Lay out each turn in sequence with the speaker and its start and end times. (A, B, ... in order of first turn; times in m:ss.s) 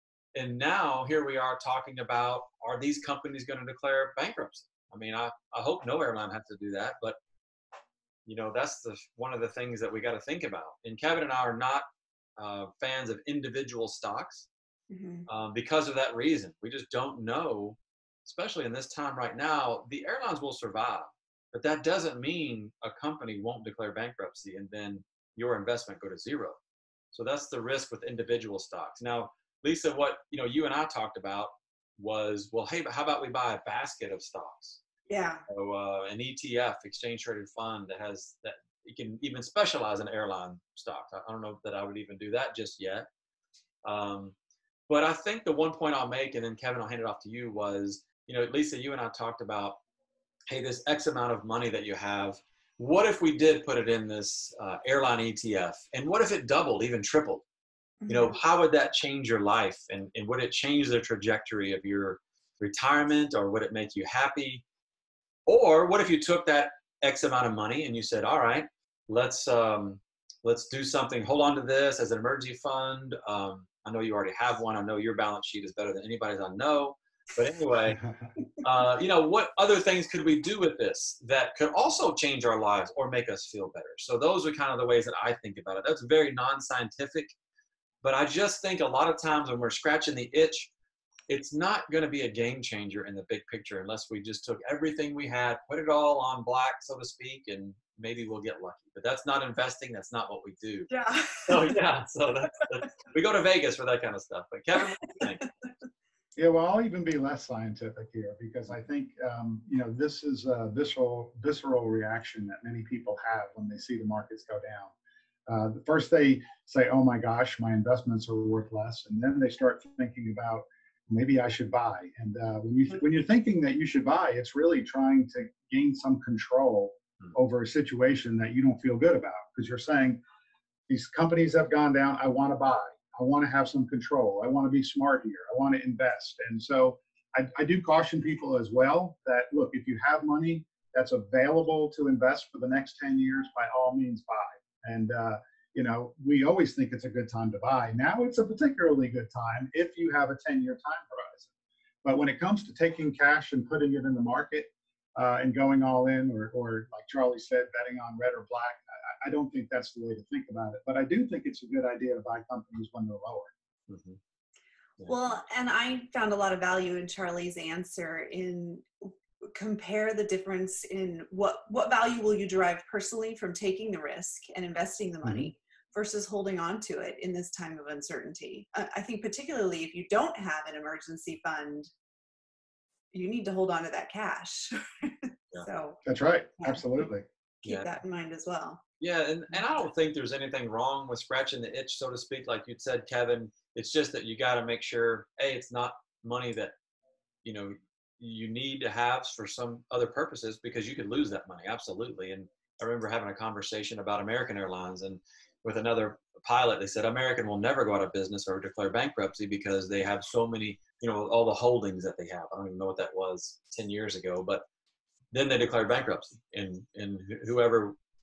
0:00.3-0:07.2 A
0:08.3-0:11.8 A
0:12.4-0:14.5 A
0:14.9-0:15.3 B
0:15.3-0:26.6 A
0:27.1-0:34.8 A
0:35.1-0:35.4 B
0:35.5-0:43.0 A
0:43.8-0:44.4 A
0:44.9-0:49.8 A
0:50.5-0:57.4 A
0:58.0-0:58.4 B
0:58.1-1:04.6 A
1:05.5-1:18.0 A
1:18.6-1:27.3 A
1:28.0-1:30.7 A
1:31.3-1:40.9 A
1:40.9-1:41.7 B
1:41.4-1:45.5 A
1:46.4-1:54.9 C
1:55.5-2:10.2 C
2:10.9-2:31.5 C
2:32.0-2:43.5 C
2:43.9-2:44.2 A
2:45.0-2:45.3 A
2:45.0-3:01.9 B
2:55.2-2:55.5 A
3:03.1-3:06.0 B
3:06.0-3:07.2 C
3:06.6-3:07.1 B
3:07.6-3:08.8 B
3:09.0-3:16.7 A
3:17.4-3:34.6 A
3:35.3-3:38.0 A